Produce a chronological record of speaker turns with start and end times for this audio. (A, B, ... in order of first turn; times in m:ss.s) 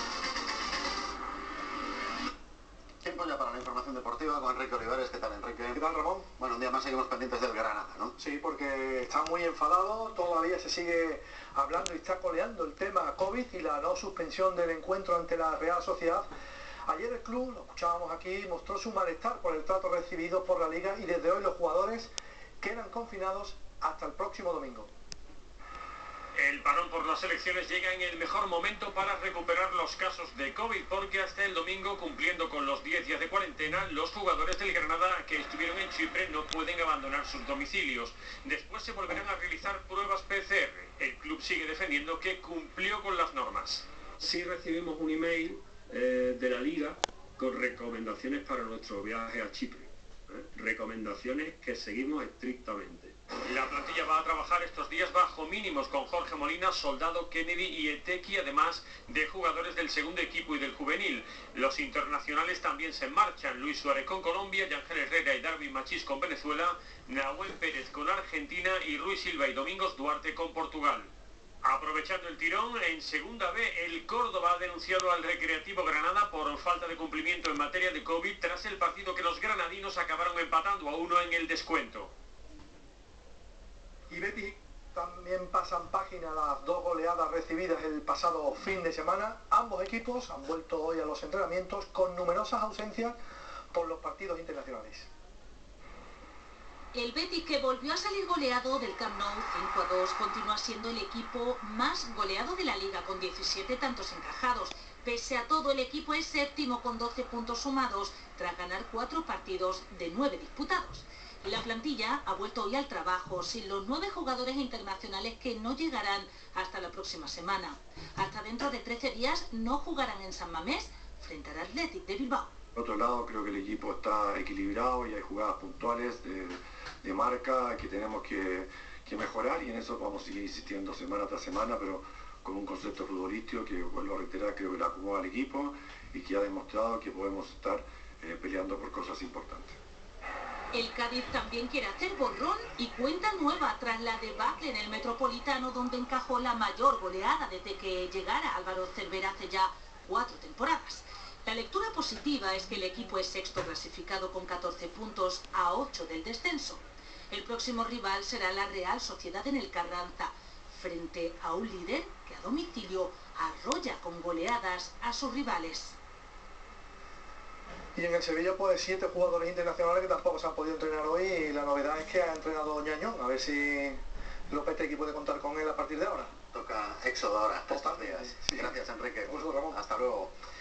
0:03.0-0:05.8 A
0:05.7-0:06.3 B
0:06.4-0:08.1 A
0:08.2-0:16.3 B
0:16.8-0:22.1 B
0:22.6-0:24.9 B
0:26.3-0:43.8 C
0:44.2-0:53.2 D
0:53.4-1:11.1 C
1:11.6-1:22.1 C
1:24.1-1:33.2 B
1:33.7-1:35.1 B
1:36.9-2:02.5 E
2:02.8-2:19.8 F
2:20.7-2:45.9 E
2:47.9-2:54.0 B
2:54.5-2:56.3 B
2:56.5-3:00.3 A
2:57.7-2:59.8 B